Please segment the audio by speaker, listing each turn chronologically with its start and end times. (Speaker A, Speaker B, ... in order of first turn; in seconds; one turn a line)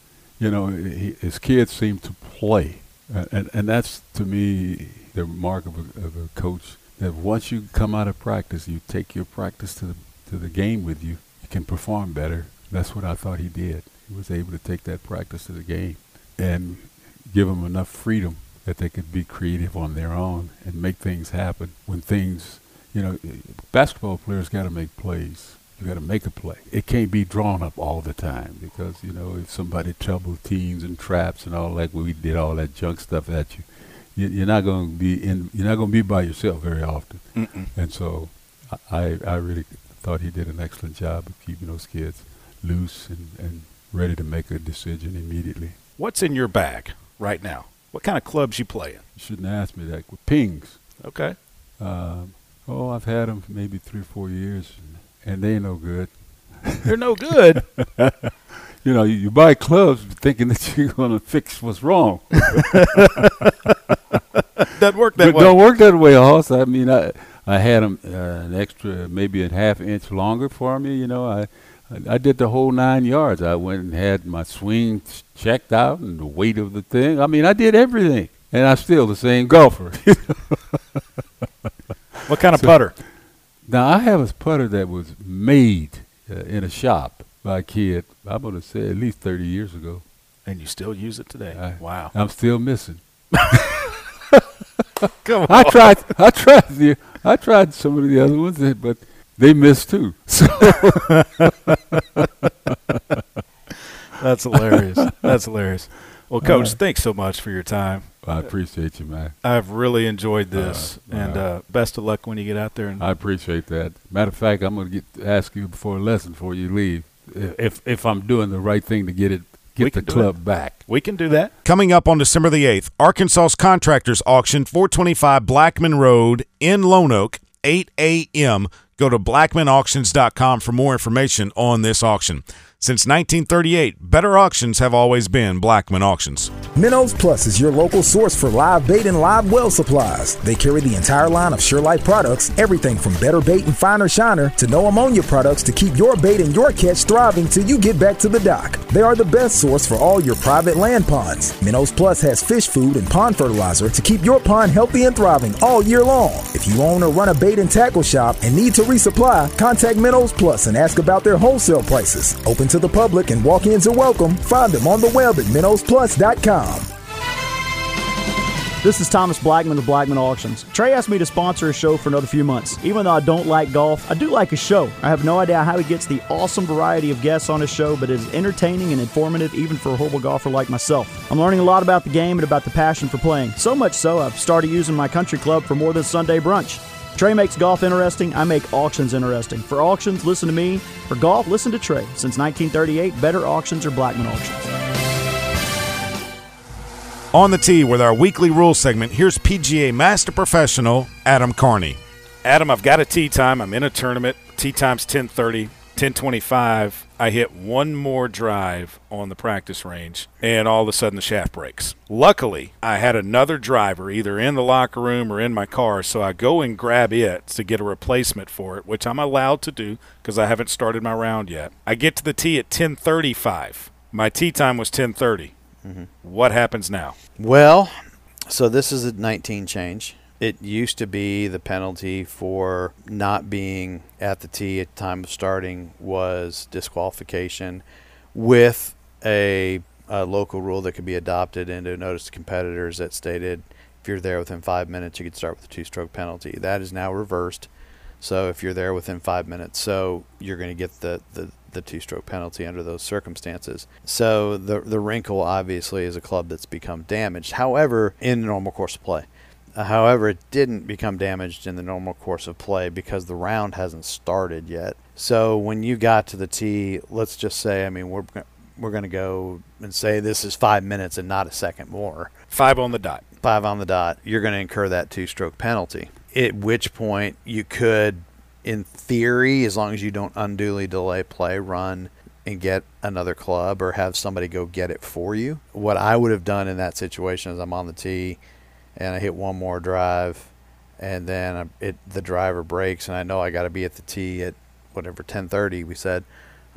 Speaker A: 0.4-45.8
Speaker B: 37.4-37.7
Speaker B: 46.0-49.0
Speaker A: 49.2-50.8
Speaker B: 51.0-51.4
Speaker A: 51.8-56.9
Speaker B: 56.8-57.7
Speaker A: 57.5-63.5
Speaker B: 62.5-63.5
Speaker B: 64.6-65.5
Speaker A: 65.2-81.0
Speaker B: 82.2-83.0
Speaker A: 83.7-90.0
Speaker B: 90.5-92.1
Speaker A: 91.5-93.0
Speaker B: 93.4-93.8
Speaker B: 95.2-96.0
Speaker A: 95.5-101.5
Speaker B: 101.2-101.8
Speaker A: 102.2-103.2
Speaker B: 104.1-108.1
Speaker A: 104.7-105.3
Speaker A: 106.4-106.8
Speaker A: 108.2-109.3
Speaker B: 109.4-113.0
Speaker A: 110.5-111.5
Speaker A: 113.0-120.8
Speaker B: 119.8-121.5
Speaker C: 121.7-136.5
Speaker D: 136.8-166.9
Speaker E: 168.8-194.7
Speaker C: 197.3-202.0
Speaker B: 202.4-225.5
Speaker F: 225.8-226.1
Speaker B: 226.2-227.2
Speaker F: 227.4-227.9
Speaker F: 228.5-247.7
Speaker F: 248.2-272.3
Speaker B: 272.5-273.2
Speaker F: 273.4-288.4
Speaker F: 289.0-296.3